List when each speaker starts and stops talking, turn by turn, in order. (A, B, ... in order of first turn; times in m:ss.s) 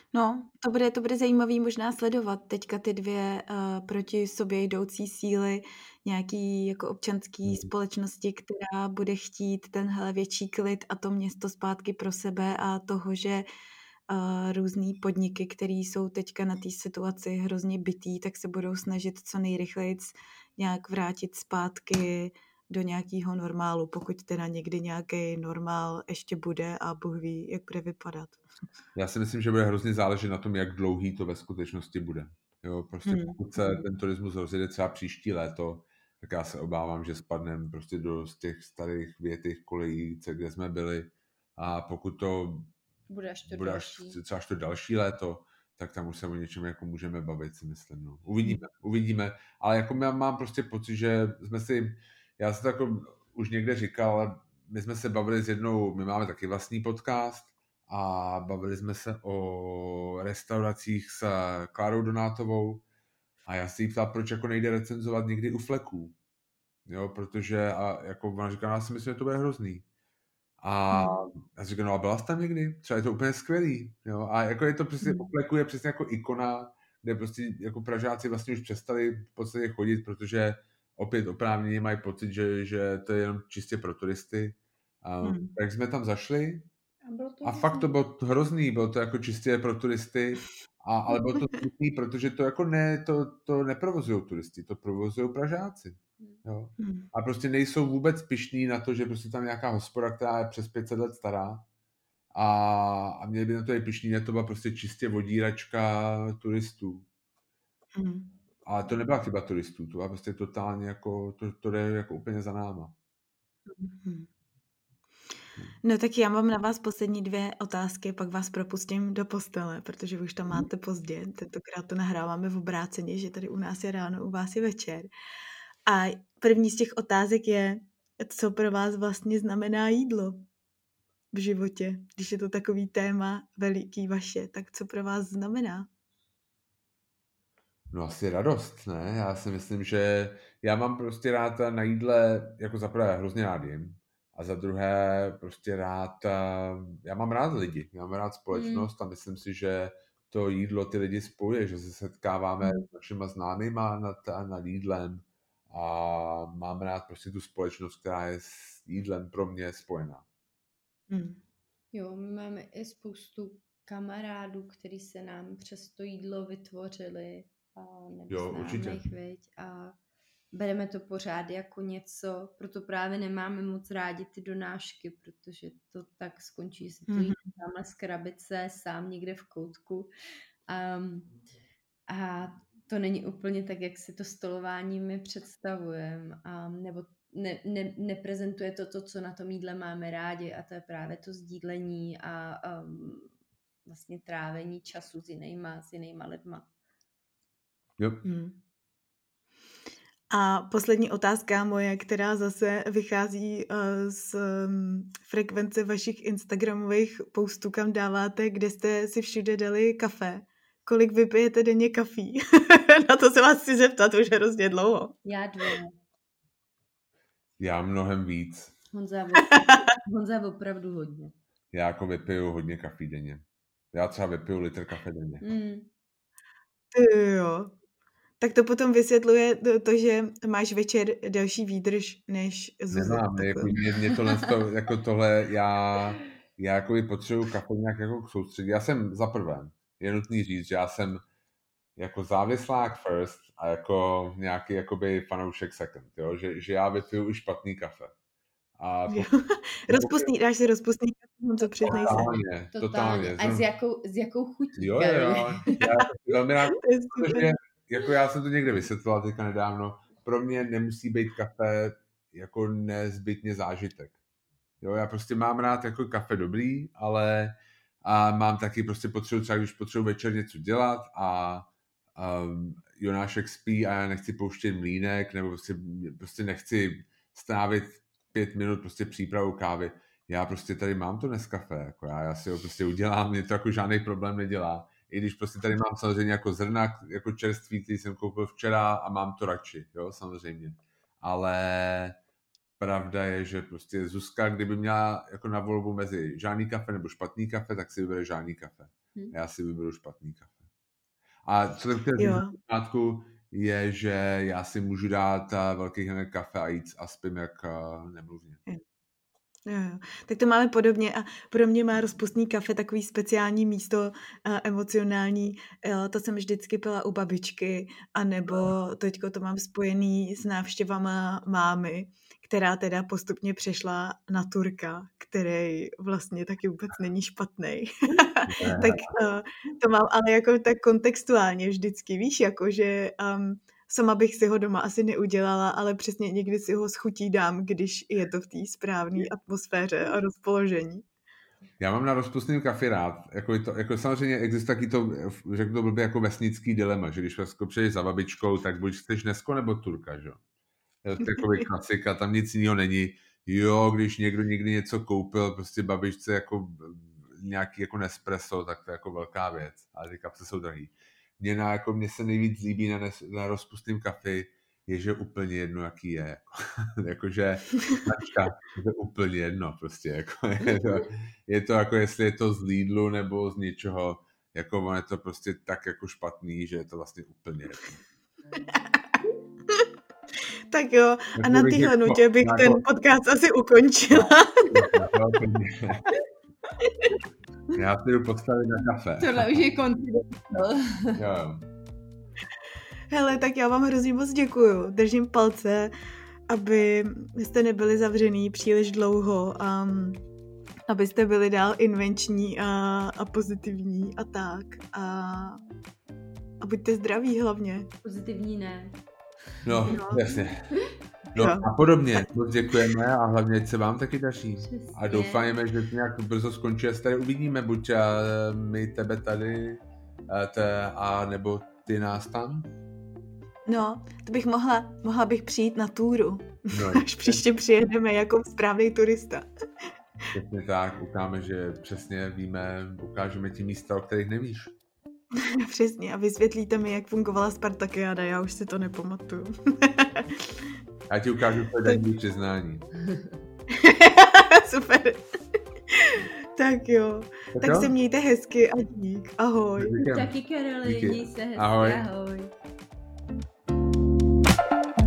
0:00.1-0:13.5 A
0:07.4-0:07.7 B
0:14.1-0:28.4 A
0:29.0-0:42.7 B
0:33.0-0:33.4 A
0:43.1-0:44.2 C
0:43.5-1:02.8 B
1:03.5-1:06.2 B
1:06.9-1:09.8 B
1:10.6-1:26.7 B
1:10.9-1:11.2 A
1:15.0-1:15.3 A
1:25.2-1:25.5 A
1:27.0-1:27.9 C
1:27.4-1:41.6 B
1:36.8-1:37.1 A
1:42.3-1:47.1 B
1:48.0-1:48.3 A
1:48.6-1:53.0 B
1:53.7-1:54.3 A
1:55.8-2:05.1 A
2:05.9-2:10.5 A
2:11.3-2:15.9 A
2:17.9-2:40.2 B
2:28.5-2:28.9 C
2:41.1-2:41.4 A
2:41.9-2:50.0 C
2:48.3-2:49.0 B
2:50.5-3:00.1 C
2:57.1-2:57.4 A
3:00.7-3:01.3 C
3:02.1-3:13.3 C
3:13.9-3:16.7 C
3:18.0-3:18.2 B
3:18.2-3:18.6 A
3:20.3-3:35.2 A
3:35.2-3:35.9 C
3:37.6-3:38.7 B
3:38.9-3:41.3 C
3:39.5-3:39.8 A
3:41.7-3:45.4 B
3:45.4-3:45.9 C
3:46.9-3:47.8 A
3:48.4-3:53.8 A
3:52.9-4:01.2 B
4:02.0-4:08.1 B
4:08.8-4:09.3 B
4:09.1-4:12.3 A
4:09.9-4:10.3 B
4:11.8-4:13.6 B
4:12.0-4:15.7 C
4:14.8-4:24.2 B
4:16.8-4:17.5 A
4:24.8-4:52.2 B
4:52.8-5:00.6 B
5:01.5-5:08.6 B
5:02.2-5:02.6 A
5:09.7-5:41.1 A
5:28.5-5:29.1 B
5:41.8-5:50.4 B
5:51.0-6:18.0 B
6:18.7-6:19.0 A
6:20.7-6:25.0 A
6:21.4-6:22.8 B
6:24.1-6:26.1 B
6:26.8-6:27.1 A
6:27.7-6:29.5 B
6:29.2-6:31.2 C
6:31.2-6:31.6 B
6:33.1-6:35.9 A
6:36.5-6:40.2 A
6:40.9-6:45.6 A
6:46.6-6:47.9 A
6:48.0-6:49.0 C
6:49.6-6:50.7 B
6:49.9-6:50.3 A
6:51.3-7:02.7 B
6:51.4-6:52.3 A
6:54.6-6:55.5 C
7:03.7-7:09.5 A
7:06.7-7:07.4 B
7:10.3-7:14.7 B
7:15.3-7:20.7 A
7:21.1-7:22.9 B
7:23.0-7:23.3 C
7:23.7-7:25.3 A
7:25.9-7:30.0 A
7:27.6-7:27.9 B
7:29.8-7:32.1 B
7:30.0-7:32.5 C